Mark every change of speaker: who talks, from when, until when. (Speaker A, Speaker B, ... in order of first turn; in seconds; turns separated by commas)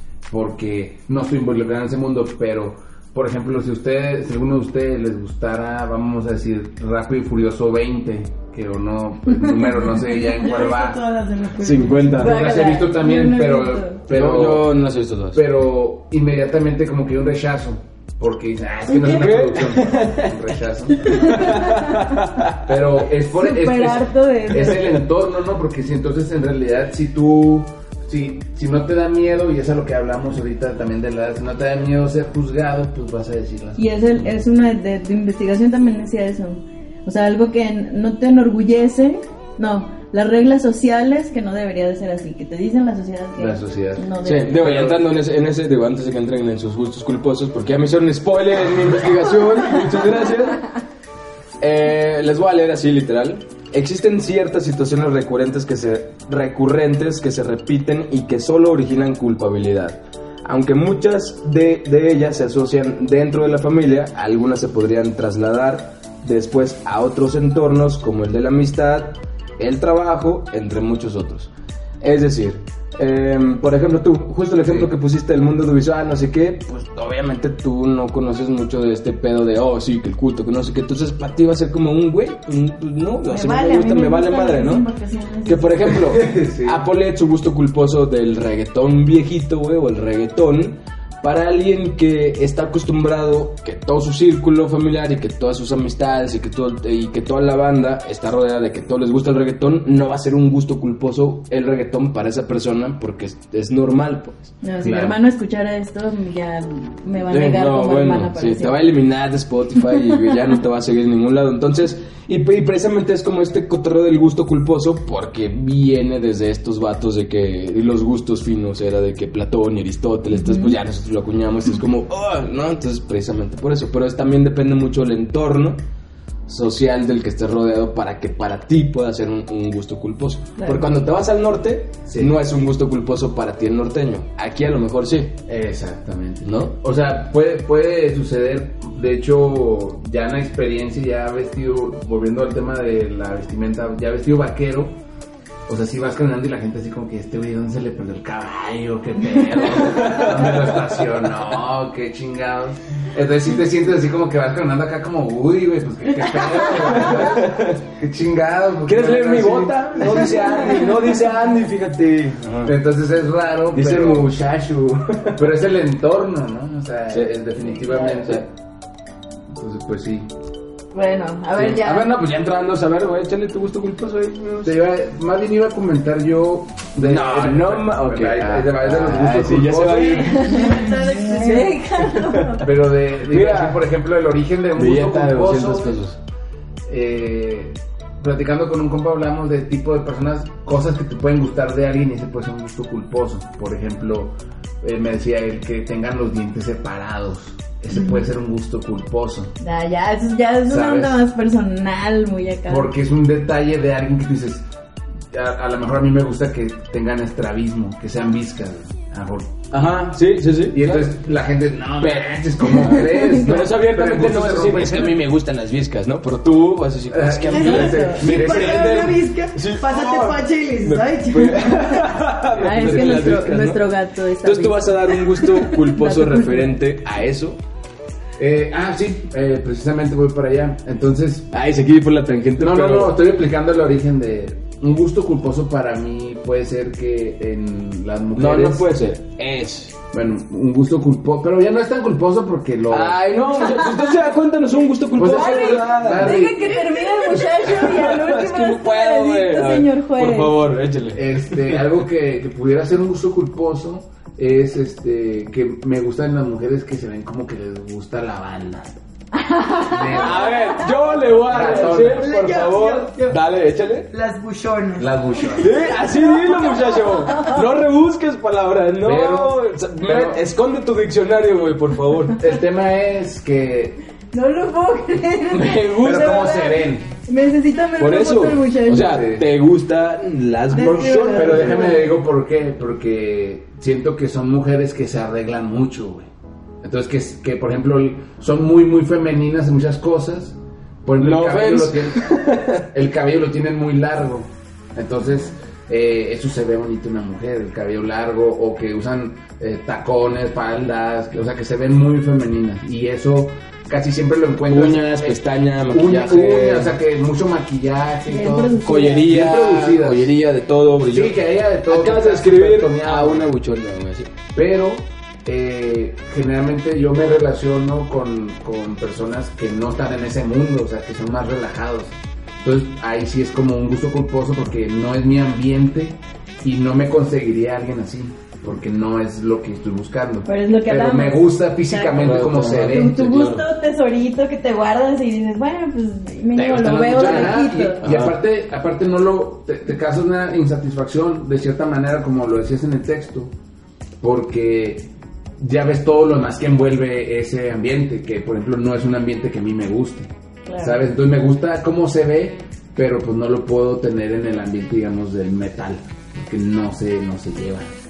Speaker A: 0.3-11.0, Speaker B: 9.3-9.6, Speaker C: 10.1-12.4, Speaker D: 11.6-12.6, Speaker B: 12.2-14.0, Speaker A: 12.2-14.8, Speaker D: 14.1-15.4, Speaker A: 15.3-21.6, Speaker D: 18.9-20.4, Speaker D: 21.0-22.8, Speaker B: 21.1-22.2, Speaker A: 22.6-33.9, Speaker B: 23.3-25.0, Speaker B: 33.8-44.7, Speaker A: 43.4-45.0, Speaker D: 44.2-50.7, Speaker D: 51.6-84.9, Speaker B: 83.3-86.1, Speaker D: 85.5-104.5, Speaker A: 85.9-86.8, Speaker B: 104.6-108.8, Speaker A: 104.8-105.2, Speaker D: 107.3-125.8, Speaker B: 120.3-120.8, Speaker D: 126.5-135.4, Speaker B: 130.6-130.8, Speaker A: 132.1-132.3, Speaker A: 135.5-145.0, Speaker D: 136.4-136.8, Speaker A: 145.7-160.7, Speaker D: 149.8-151.0, Speaker D: 156.5-157.8, Speaker D: 158.9-162.8, Speaker A: 162.6-164.3, Speaker D: 163.7-165.5, Speaker A: 165.3-168.5, Speaker D: 167.1-168.4, Speaker A: 169.5-170.3, Speaker B: 170.9-172.2, Speaker D: 171.6-174.8, Speaker A: 174.6-180.5, Speaker D: 177.0-182.7, Speaker C: 180.0-181.8, Speaker B: 180.3-182.7, Speaker A: 182.6-186.0, Speaker D: 183.3-183.8, Speaker D: 184.8-186.2, Speaker A: 186.9-199.5, Speaker B: 199.6-202.9, Speaker A: 200.7-201.2, Speaker A: 202.7-204.7, Speaker A: 205.3-209.7, Speaker D: 209.7-211.1, Speaker A: 210.7-215.2, Speaker D: 212.0-223.9, Speaker B: 212.7-213.4, Speaker A: 217.1-219.0, Speaker C: 217.5-222.1, Speaker B: 217.6-218.2, Speaker B: 222.6-226.8, Speaker A: 222.7-223.2, Speaker D: 224.4-227.6, Speaker A: 228.4-231.5, Speaker D: 231.5-233.2, Speaker A: 232.6-238.9, Speaker D: 238.3-240.0, Speaker A: 240.1-243.2, Speaker D: 242.9-251.9, Speaker A: 245.1-246.8, Speaker B: 245.2-250.6, Speaker A: 251.1-259.0, Speaker B: 259.3-261.2, Speaker A: 259.9-260.5, Speaker D: 260.1-264.1, Speaker A: 261.4-262.4, Speaker C: 262.2-263.4, Speaker C: 264.1-265.2, Speaker A: 265.0-265.9, Speaker D: 265.6-272.4, Speaker B: 266.0-267.6, Speaker A: 269.0-270.4, Speaker A: 272.4-274.0, Speaker B: 274.3-279.2, Speaker D: 275.5-276.4, Speaker A: 275.9-277.1, Speaker D: 278.0-282.0, Speaker A: 279.0-279.4, Speaker C: 280.7-282.1, Speaker A: 281.3-286.3, Speaker A: 286.8-292.3, Speaker D: 291.2-292.9, Speaker A: 292.9-310.3, Speaker D: 304.7-307.0, Speaker B: 308.3-309.3, Speaker D: 308.8-311.4, Speaker A: 311.0-313.5, Speaker D: 311.9-314.3, Speaker A: 314.5-333.2, Speaker B: 330.4-338.1, Speaker D: 332.2-333.7, Speaker D: 336.6-338.4, Speaker A: 337.1-343.5, Speaker A: 344.2-357.9, Speaker B: 350.7-351.0